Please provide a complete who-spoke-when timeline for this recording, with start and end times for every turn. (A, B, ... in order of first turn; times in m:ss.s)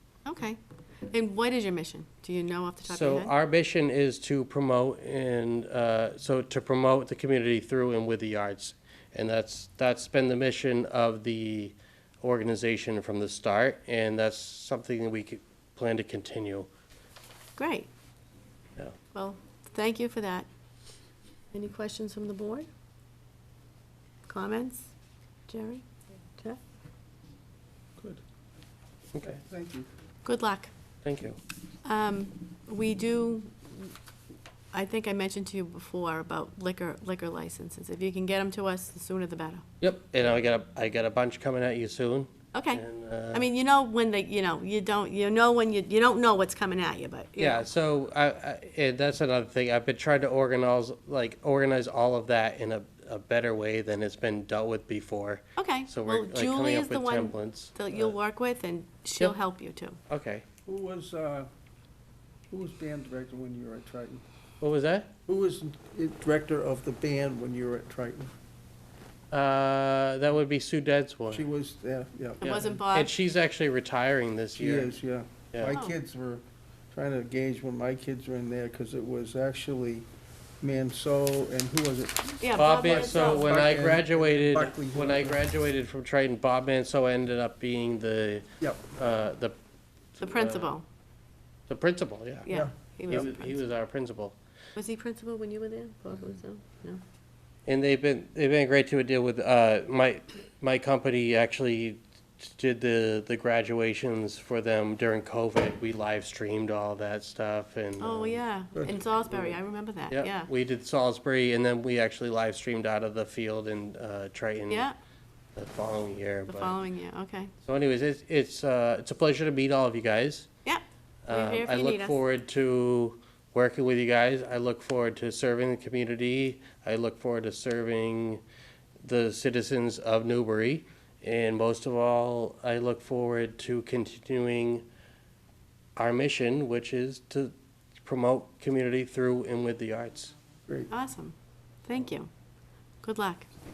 0:00.2-0:03.3 A
0:02.9-0:16.7 B
0:17.6-0:17.9 A
0:19.1-0:20.5 A
0:21.5-0:22.7 A
0:24.3-0:24.9 A
0:25.5-0:26.6 A
0:29.1-0:29.4 B
0:29.2-0:29.9 C
0:30.2-0:30.7 A
0:31.0-0:31.4 B
0:31.8-0:34.0 A
0:34.7-0:39.6 A
0:39.8-0:43.5 B
0:42.5-0:47.7 A
0:47.4-0:58.2 B
0:55.6-1:00.0 A
1:00.1-1:00.4 B
1:00.7-1:01.5 C
1:02.5-1:04.2 C
1:04.6-1:05.1 B
1:05.3-1:08.3 C
1:09.3-1:11.5 B
1:11.3-1:12.4 C
1:12.4-1:13.1 A
1:12.4-1:15.0 B
1:14.6-1:20.1 C
1:15.6-1:16.0 A
1:20.6-1:25.4 C
1:22.4-1:23.5 A
1:22.6-1:29.6 B
1:30.2-1:30.8 B
1:30.2-1:30.8 A
1:31.7-1:32.5 B
1:32.5-1:33.6 A
1:33.1-1:34.4 B
1:34.8-1:37.0 A
1:37.7-1:48.4 B
1:48.0-1:50.5 A
1:48.7-1:49.6 C
1:50.1-1:54.9 B
1:54.7-1:55.0 A
1:55.6-1:56.7 B
1:56.5-1:57.5 A
1:57.6-2:00.5 B
2:00.6-2:02.2 A
2:01.3-2:08.4 B
2:09.0-2:14.9 B
2:16.0-2:20.3 B
2:20.9-2:21.4 A
2:21.9-2:22.3 A
2:23.0-2:23.5 A